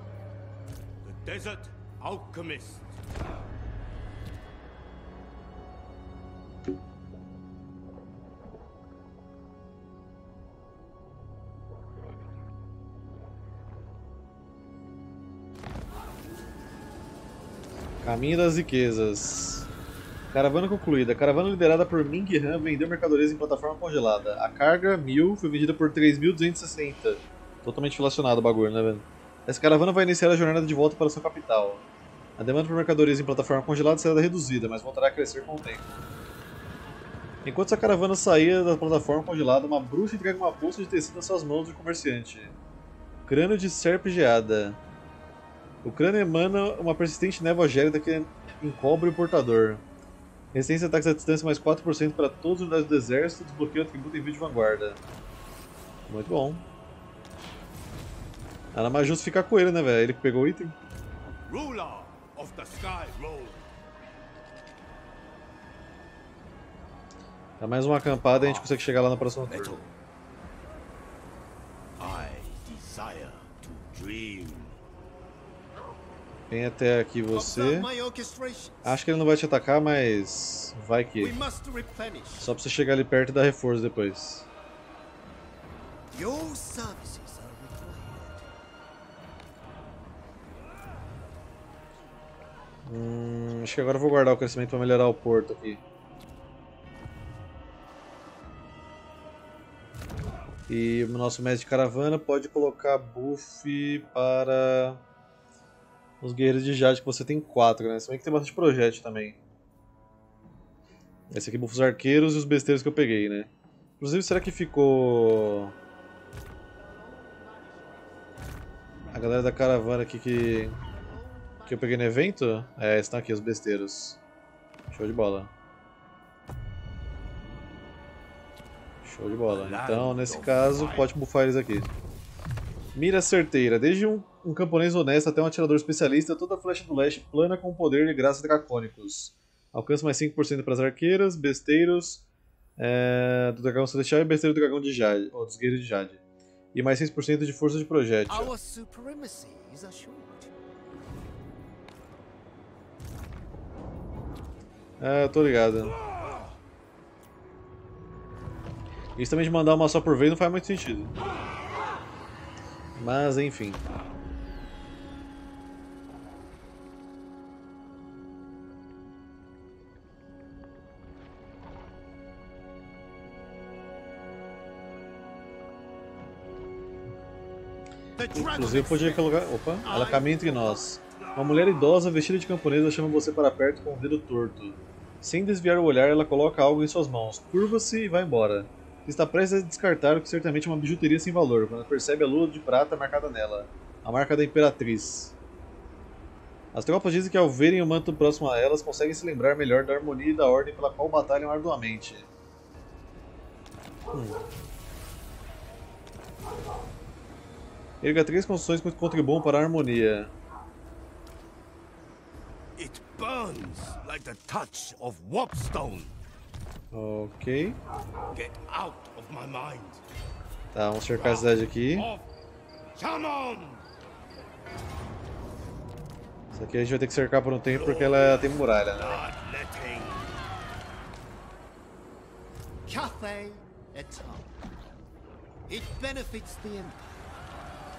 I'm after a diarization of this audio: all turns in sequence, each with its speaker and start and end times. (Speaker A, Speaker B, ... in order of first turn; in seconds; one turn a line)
Speaker A: 1.0-3.0
Speaker B: 18.0-19.7
Speaker B: 20.3-31.8
Speaker B: 32.4-36.0
Speaker B: 37.4-42.5
Speaker B: 43.3-44.8
Speaker B: 45.8-49.8
Speaker B: 50.5-55.0
Speaker B: 56.1-56.6
Speaker B: 58.7-60.8
Speaker A: 61.5-63.7
Speaker B: 67.6-69.8
Speaker A: 68.3-68.8
Speaker A: 69.5-69.9
Speaker A: 72.0-74.8
Speaker B: 76.5-77.9
Speaker C: 77.3-79.0
Speaker B: 78.8-81.3
Speaker C: 81.2-82.5
Speaker B: 82.4-84.5
Speaker C: 86.1-88.5
Speaker B: 92.9-95.8
Speaker B: 100.7-105.0
Speaker B: 106.2-109.4
Speaker B: 111.3-113.5
Speaker B: 114.0-115.8
Speaker C: 116.7-118.3
Speaker C: 119.1-119.4
Speaker B: 119.1-120.8
Speaker C: 120.8-122.3
Speaker B: 121.7-124.2
Speaker B: 124.9-125.5
Speaker B: 129.0-131.9
Speaker A: 129.5-131.1
Speaker B: 132.9-142.2
Speaker B: 142.8-146.2
Speaker B: 146.7-148.5
Speaker C: 148.3-150.5
Speaker B: 155.0-155.9
Speaker B: 159.2-161.1
Speaker B: 163.0-163.8
Speaker C: 178.2-181.0
Speaker B: 178.3-195.3
Speaker B: 196.7-202.3
Speaker B: 204.1-204.4
Speaker B: 208.0-210.3
Speaker A: 212.8-216.2
Speaker B: 216.9-217.8
Speaker A: 218.3-220.0
Speaker B: 220.7-222.1
Speaker A: 221.2-222.3
Speaker A: 223.0-223.8
Speaker B: 226.5-229.2
Speaker A: 227.7-230.4
Speaker C: 232.9-234.6
Speaker C: 235.7-237.3